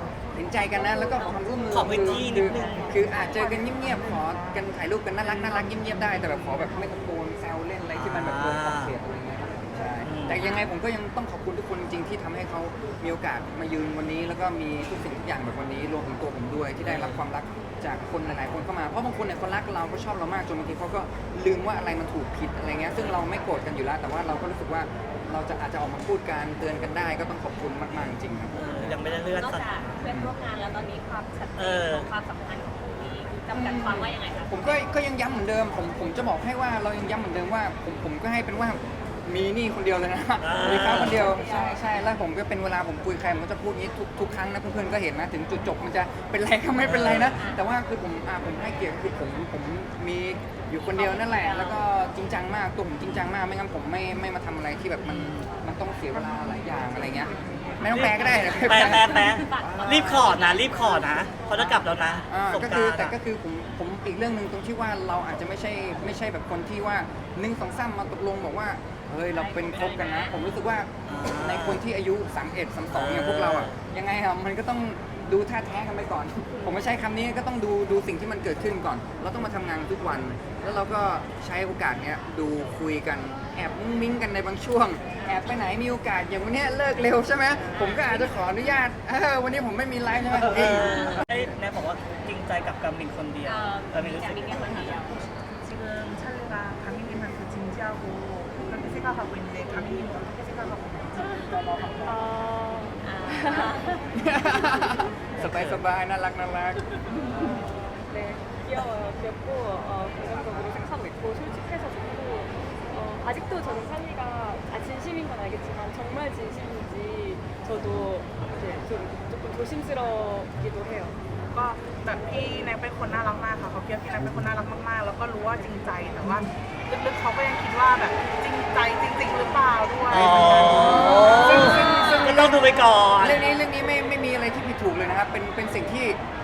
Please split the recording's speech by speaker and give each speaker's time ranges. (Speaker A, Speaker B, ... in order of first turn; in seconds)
Speaker A: 0.3-29.0, 30.0-30.3, 33.5-60.4, 62.3-91.5, 104.1-106.9, 130.1-136.2
Speaker B: 1.7-2.9, 7.9-8.9, 10.0-10.4, 16.8-17.3, 28.5-29.8, 31.6-32.1, 40.4-41.3, 46.8-47.4, 55.0-55.5, 57.9-63.1, 71.0-71.8, 72.9-73.8, 90.3-95.0, 105.4-105.8, 130.1-133.5
Speaker C: 2.2-4.6, 5.3-6.7, 57.1-58.0, 95.6-102.2, 107.1-107.5, 121.5-132.2
Speaker D: 29.3-34.8, 40.8-41.8, 50.9-51.8, 58.2-62.1, 69.3-70.3, 87.6-88.6, 93.4-95.2, 103.0-104.0
Speaker E: 102.0-104.8, 107.4-121.2